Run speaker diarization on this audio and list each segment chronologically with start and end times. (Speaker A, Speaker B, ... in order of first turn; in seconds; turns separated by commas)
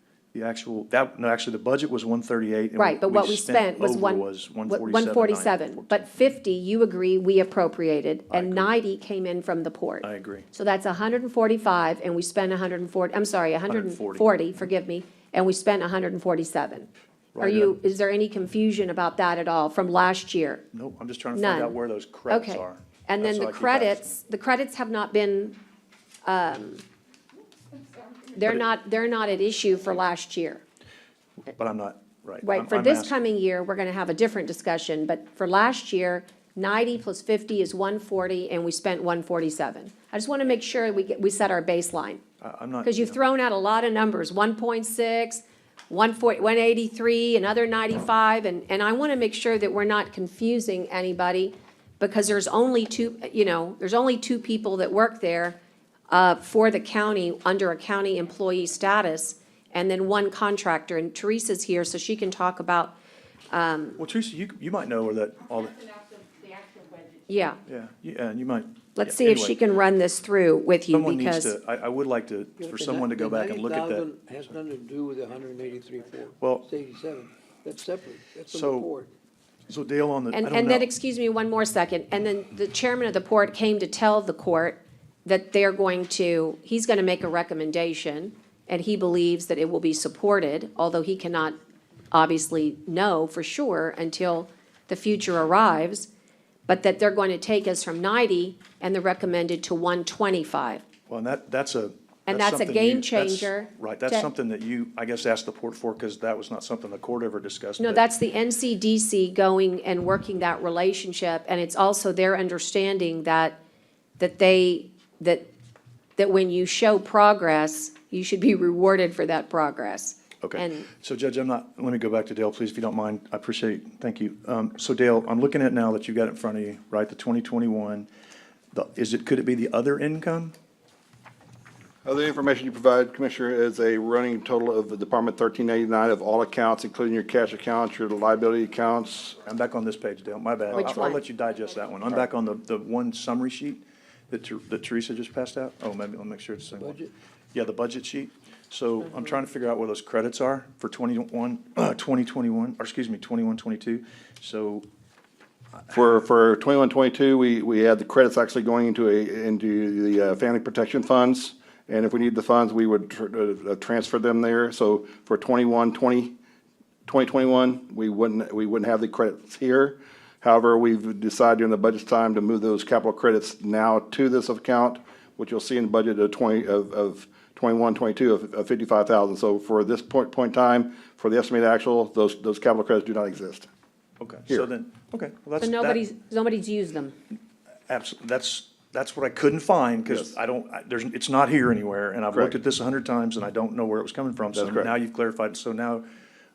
Speaker A: 0.3-6.0, Speaker B: 2.8-20.7, Speaker A: 8.3-8.7, Speaker A: 10.0-10.5, Speaker A: 13.7-14.6, Speaker A: 17.3-17.9, Speaker A: 20.7-24.2, Speaker B: 21.3-25.6, Speaker B: 26.2-26.8, Speaker B: 28.3-30.6, Speaker A: 31.5-33.1, Speaker B: 32.4-42.2, Speaker A: 42.4-43.2, Speaker B: 42.8-55.6, Speaker B: 56.1-63.0, Speaker B: 63.5-64.0, Speaker A: 64.0-66.0, Speaker B: 67.3-67.6, Speaker A: 67.7-69.5, Speaker B: 69.0-71.5, Speaker A: 70.9-74.1, Speaker C: 72.6-79.1, Speaker A: 76.4-76.7, Speaker A: 78.5-78.9, Speaker A: 79.7-80.8, Speaker B: 80.3-91.5, Speaker B: 92.1-96.1, Speaker B: 96.7-100.8, Speaker A: 101.1-108.0, Speaker B: 102.3-104.3, Speaker B: 107.8-113.6, Speaker B: 114.2-115.5, Speaker B: 116.2-120.9, Speaker A: 120.4-128.1, Speaker A: 128.7-130.5, Speaker D: 132.0-139.4, Speaker A: 139.4-147.0, Speaker B: 140.7-141.2, Speaker C: 146.8-147.1, Speaker A: 147.5-154.8, Speaker D: 155.9-166.3, Speaker D: 167.1-183.7, Speaker A: 184.2-186.0, Speaker B: 185.6-187.2, Speaker A: 187.9-196.1, Speaker D: 194.5-194.9